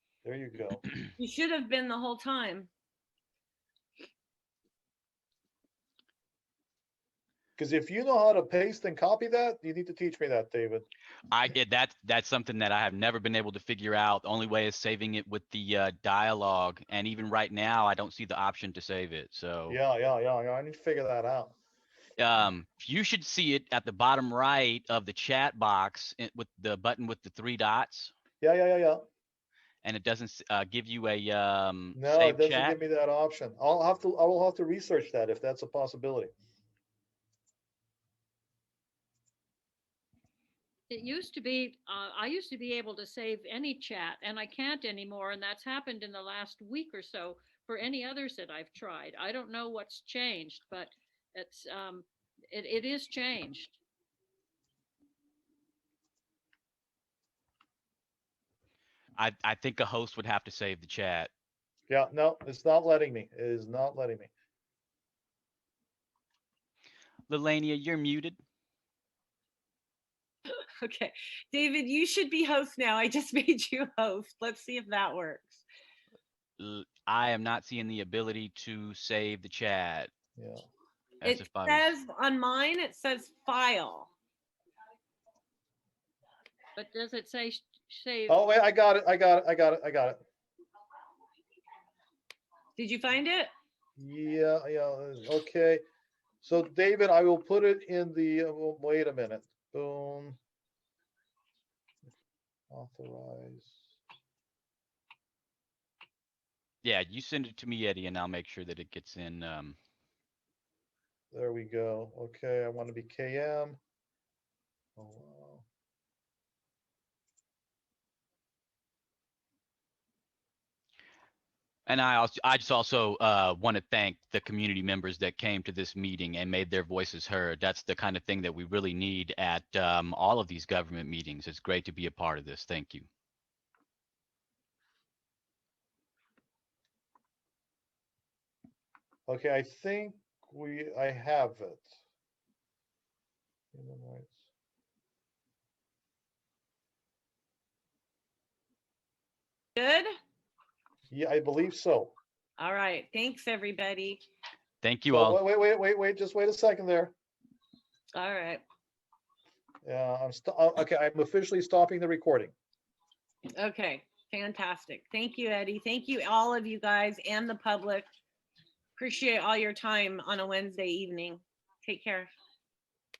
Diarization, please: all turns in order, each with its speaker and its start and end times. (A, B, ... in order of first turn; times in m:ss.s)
0:00.2-0:00.8 A
0:01.2-0:02.7 B
0:07.6-0:10.9 A
0:11.3-0:19.8 C
0:19.7-0:21.5 A
0:22.2-0:28.1 C
0:28.4-0:29.0 A
0:29.8-0:32.8 C
0:31.9-0:36.3 A
0:40.9-0:53.7 D
0:59.2-1:01.3 C
1:01.9-1:04.3 A
1:07.3-1:08.4 C
1:10.8-1:15.6 B
1:16.6-1:20.1 C
1:20.4-1:20.6 A
1:21.2-1:21.9 C
1:21.2-1:24.1 B
1:26.8-1:28.4 D
1:28.3-1:30.2 A
1:32.8-1:33.5 B
1:34.0-1:35.8 A
1:36.4-1:40.4 A
1:42.7-1:43.8 A
1:46.8-1:49.8 C
1:51.3-1:53.8 A
1:55.0-1:55.6 A
2:01.9-2:13.0 C
2:19.3-2:21.9 A
2:23.7-2:24.4 A
2:29.8-2:30.1 B
2:31.1-2:32.1 A
2:32.6-2:34.2 B
2:34.8-2:35.4 C
2:35.1-2:37.1 A
2:38.1-2:38.6 B
2:39.8-2:42.5 A
2:43.6-2:48.1 B
2:49.0-2:52.3 B